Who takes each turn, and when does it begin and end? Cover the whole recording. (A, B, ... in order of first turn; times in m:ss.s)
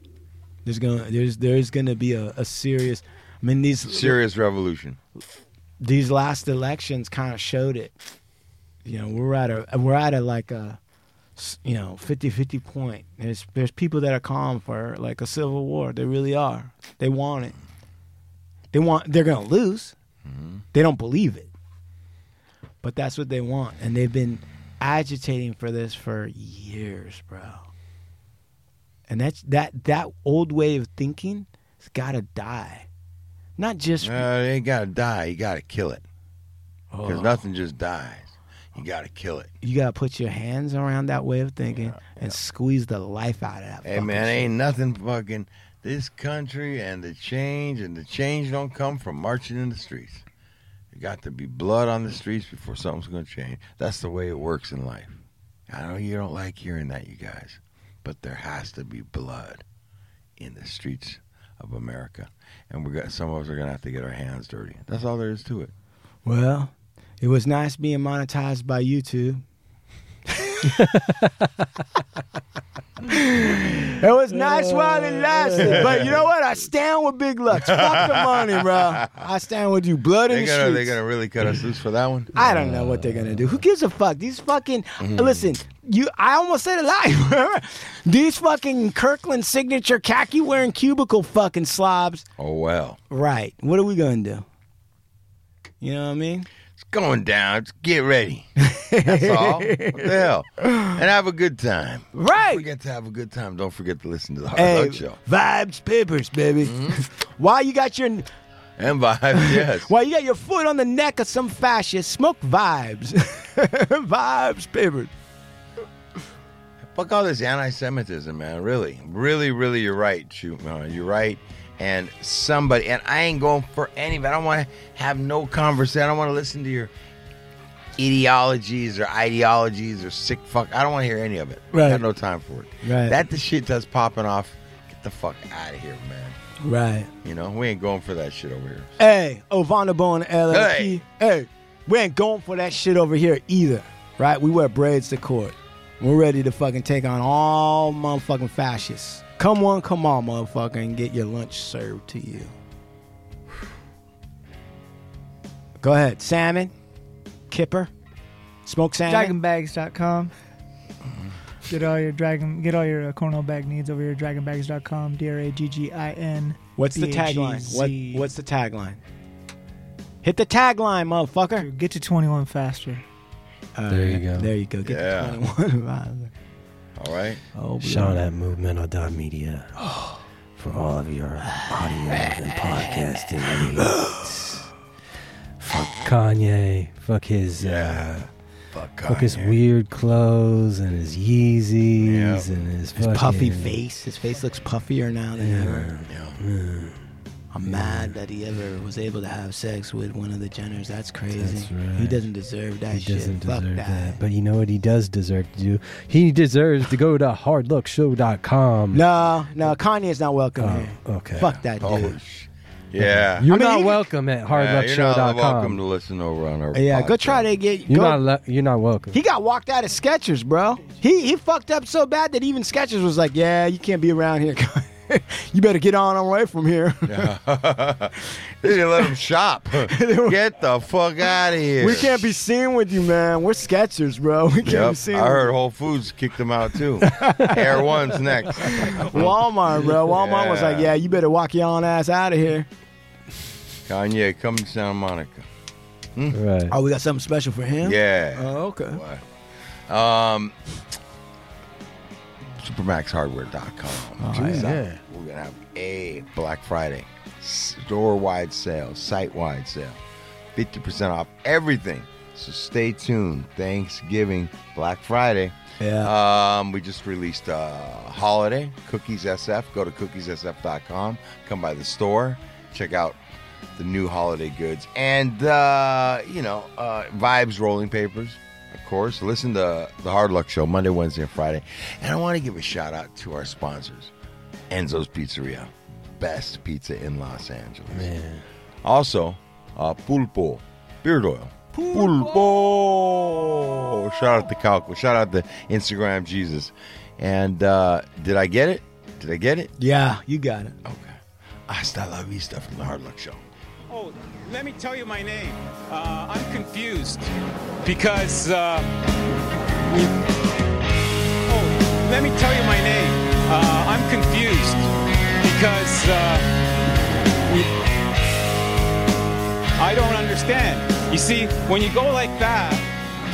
0:00.6-0:04.2 A
0:03.9-0:05.0 B
0:05.8-0:08.0 A
0:08.8-0:10.8 A
0:11.4-0:17.6 A
0:18.7-0:20.0 A
0:20.2-0:20.6 B
0:20.7-0:21.5 A
0:22.8-0:27.7 A
0:29.1-0:32.9 A
0:33.6-0:34.3 A
0:34.0-0:36.1 B
0:36.9-0:37.4 A
0:37.0-0:39.5 B
0:39.6-0:44.5 A
0:41.8-0:42.3 B
0:43.8-0:50.3 B
0:50.9-0:59.6 B
1:00.4-1:05.7 B
1:06.2-1:09.4 A
1:10.4-1:11.0 A
1:13.1-1:21.0 A
1:15.6-1:16.2 B
1:17.6-1:19.2 B
1:20.3-1:22.3 B
1:22.3-1:32.3 A
1:22.7-1:23.1 C
1:25.0-1:25.4 B
1:32.4-1:33.0 B
1:33.1-1:34.5 A
1:35.8-1:36.5 A
1:36.8-1:38.5 B
1:38.6-1:41.0 A
1:39.0-1:45.2 B
1:42.1-1:42.7 A
1:44.6-1:48.3 A
1:46.7-1:47.0 B
1:48.8-1:49.9 B
1:49.3-1:55.1 A
1:56.9-2:06.9 B
2:08.0-2:16.4 B
2:11.7-2:12.0 A
2:12.8-2:13.2 A
2:16.6-2:17.1 A
2:17.2-2:19.0 B
2:19.0-2:32.5 A
2:20.5-2:21.0 B
2:35.8-2:36.7 A
2:37.5-2:37.9 A
2:38.6-2:39.4 A
2:39.1-2:40.3 D
2:41.7-2:48.3 D
2:46.8-2:49.0 A
2:50.2-2:51.7 A
2:51.6-2:53.0 D
2:53.8-2:56.3 A
2:53.9-2:54.5 C
2:54.8-2:55.4 B
2:57.0-2:57.4 B
2:57.5-2:58.2 A
2:57.8-2:59.9 C
3:00.6-3:04.5 C
3:03.9-3:04.2 A
3:05.6-3:08.3 C
3:07.6-3:08.2 B
3:08.7-3:09.6 B
3:09.0-3:13.8 C
3:12.0-3:12.7 B
3:13.0-3:15.9 A
3:15.4-3:17.0 C
3:16.1-3:16.4 B
3:17.5-3:24.2 A
3:17.6-3:18.2 C
3:21.4-3:22.2 C
3:22.9-3:29.0 C
3:28.9-3:32.2 A
3:30.6-3:31.5 C
3:31.4-3:33.5 B
3:33.0-3:35.8 C
3:33.5-3:34.1 A
3:34.5-3:37.5 B
3:36.7-3:38.2 A
3:37.9-3:39.2 C
3:39.1-3:47.3 A
3:47.1-3:52.3 B
3:49.9-3:50.4 A
3:51.8-3:55.5 A
3:54.6-3:59.4 B
3:57.2-3:57.5 C
3:57.2-3:57.6 A
3:58.6-4:02.7 A
4:00.0-4:01.0 B
4:03.9-4:05.5 B
4:06.3-4:06.7 C
4:06.7-4:09.0 A
4:07.8-4:09.2 B
4:09.9-4:10.6 B
4:12.6-4:20.0 B
4:14.2-4:14.8 A
4:14.3-4:15.0 C
4:20.5-4:33.2 B
4:25.8-4:26.1 A
4:33.8-4:44.1 B
4:44.7-4:48.1 B
4:47.9-4:48.5 C
4:48.8-4:59.7 B
4:51.8-4:52.4 A
4:59.8-5:00.8 A
5:00.8-5:03.5 B
5:03.9-5:07.3 E
5:07.8-5:08.9 E
5:09.9-5:10.2 E
5:11.5-5:16.5 E
5:17.5-5:17.7 E
5:19.8-5:22.9 E